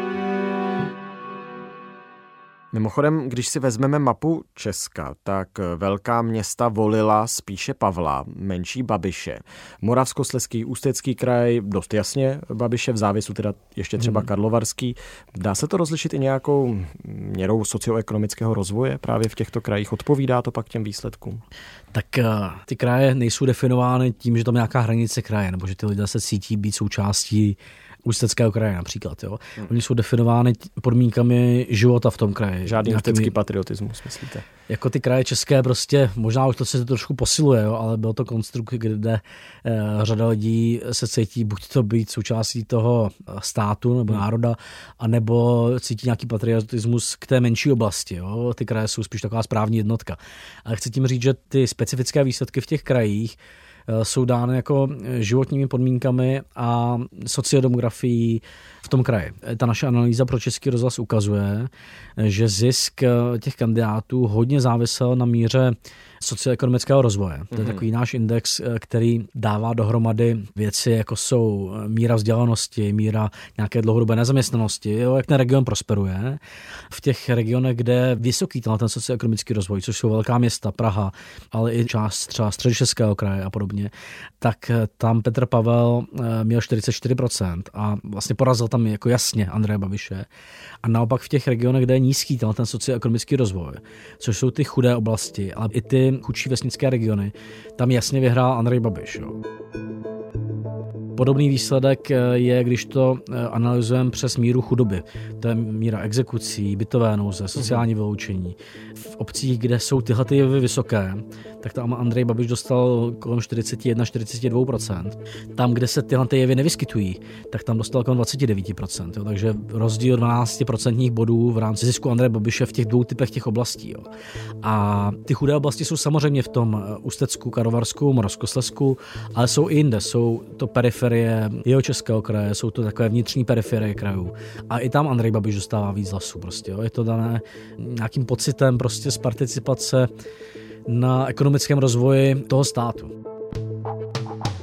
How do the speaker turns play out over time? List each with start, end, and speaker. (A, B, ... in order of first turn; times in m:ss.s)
0:02.7-0:21.4 A
0:14.0-0:14.2 B
0:21.9-0:33.3 B
0:32.6-0:34.4 A
0:34.7-0:53.4 B
0:53.9-1:16.4 B
1:07.5-1:07.8 A
1:16.9-1:30.3 B
1:30.8-1:39.4 B
1:41.2-2:04.1 B
2:04.6-2:20.1 B
2:20.9-2:23.1 B